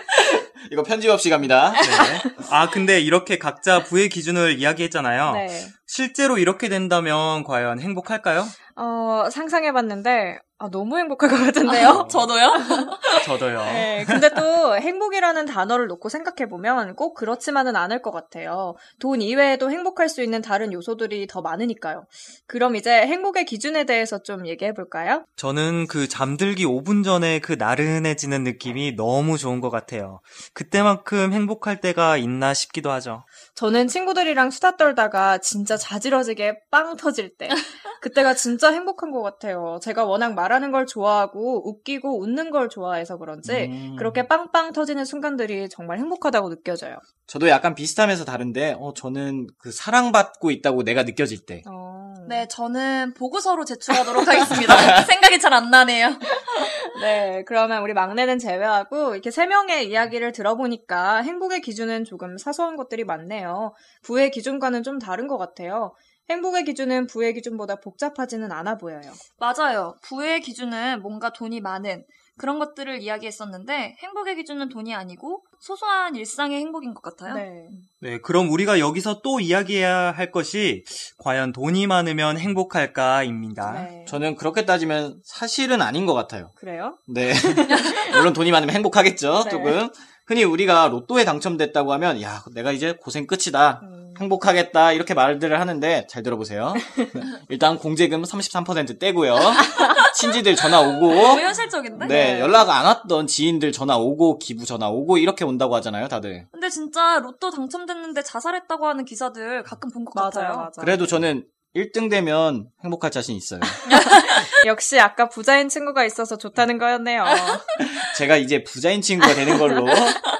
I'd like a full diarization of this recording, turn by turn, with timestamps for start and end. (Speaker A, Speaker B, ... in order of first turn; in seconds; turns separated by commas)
Speaker A: 0.7-1.8, Speaker B: 1.8-8.6, Speaker C: 5.3-5.7, Speaker C: 8.7-25.2, Speaker D: 11.6-13.2, Speaker B: 11.9-12.2, Speaker B: 13.2-14.3, Speaker B: 25.4-33.2, Speaker C: 33.5-47.0, Speaker A: 43.4-44.3, Speaker A: 47.3-51.6, Speaker C: 51.6-52.5, Speaker D: 52.2-56.7, Speaker C: 56.6-69.2, Speaker D: 69.4-77.4, Speaker C: 77.2-77.8, Speaker B: 78.0-83.9, Speaker C: 83.6-84.2, Speaker A: 84.1-86.5, Speaker C: 86.6-88.0, Speaker A: 87.1-106.5, Speaker D: 87.7-88.2, Speaker C: 89.4-89.8, Speaker C: 93.8-94.2, Speaker D: 99.8-100.1, Speaker D: 101.0-102.2, Speaker C: 102.0-102.7, Speaker D: 106.5-110.7, Speaker C: 110.1-111.0, Speaker A: 110.8-113.8, Speaker D: 113.9-114.5, Speaker C: 114.1-117.6, Speaker A: 117.8-120.2